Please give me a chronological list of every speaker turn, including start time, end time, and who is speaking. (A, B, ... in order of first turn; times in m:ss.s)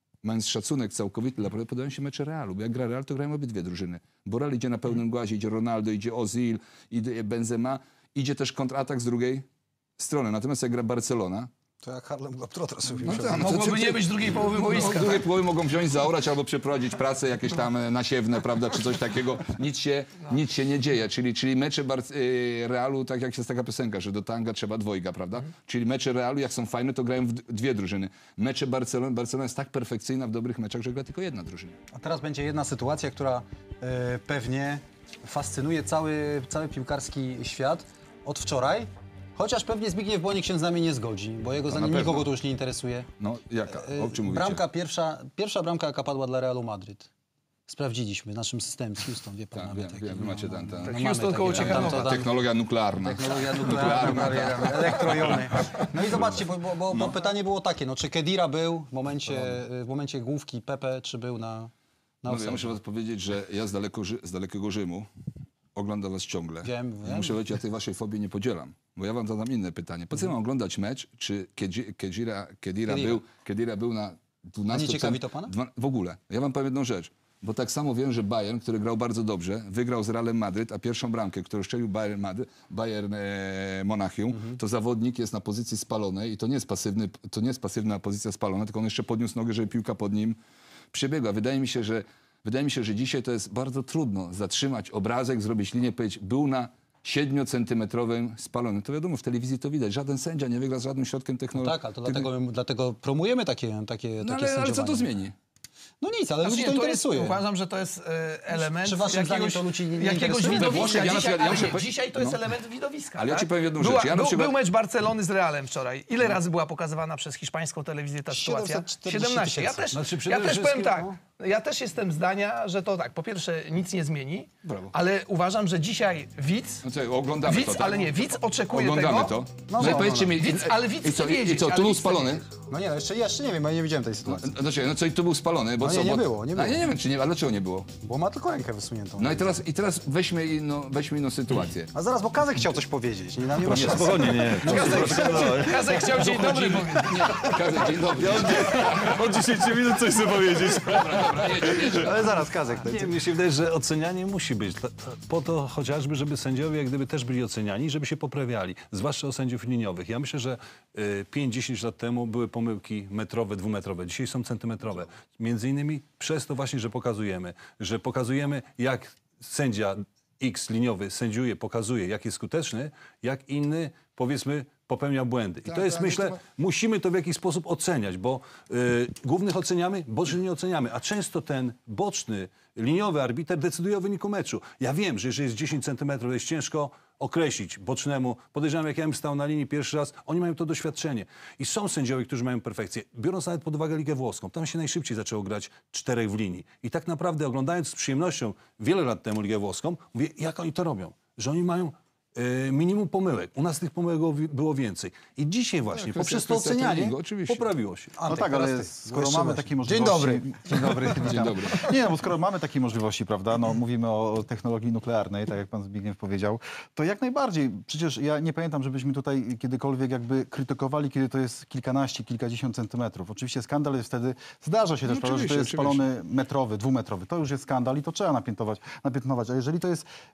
0:00.2-0:09.5 A
0:10.0-0:11.5 A
0:11.8-0:13.5 B
0:13.0-0:31.8 A
0:13.3-0:15.3 C
0:31.9-0:43.1 B
0:41.7-0:42.3 A
0:43.2-0:44.6 A
0:43.7-0:47.1 B
0:47.7-0:52.4 B
0:49.6-0:56.3 A
0:50.8-0:52.2 C
0:53.0-1:01.7 B
1:02.2-1:02.8 B
1:02.3-1:05.1 A
1:05.8-1:30.4 A
1:06.6-1:07.4 B
1:12.9-1:13.2 B
1:14.7-1:15.5 B
1:24.3-1:24.6 B
1:30.9-1:42.3 A
1:41.6-1:45.1 B
1:44.2-1:45.4 A
1:46.0-1:47.4 B
1:46.4-2:06.8 C
1:48.5-1:51.0 B
1:50.5-1:52.4 A
1:53.2-1:54.6 A
1:58.3-1:59.8 B
1:59.9-2:01.1 D
2:04.6-2:04.9 A
2:06.8-2:08.1 A
2:07.4-2:12.4 C
2:08.7-2:12.4 A
2:09.7-2:10.4 B
2:12.7-2:14.5 B
2:14.3-2:17.9 A
2:15.8-2:16.9 B
2:18.0-2:19.6 B
2:19.2-2:21.9 A
2:21.9-2:26.0 B
2:23.6-2:26.5 D
2:24.6-2:27.5 C
2:24.7-2:29.2 A
2:28.0-3:28.2 D
2:30.7-2:32.3 A
2:31.8-2:33.1 B
2:55.7-2:56.4 A
3:25.9-3:27.7 A
3:26.9-3:27.1 B
3:28.2-3:31.9 B
3:28.3-3:50.1 E
3:31.2-3:31.9 A
3:45.0-3:46.0 A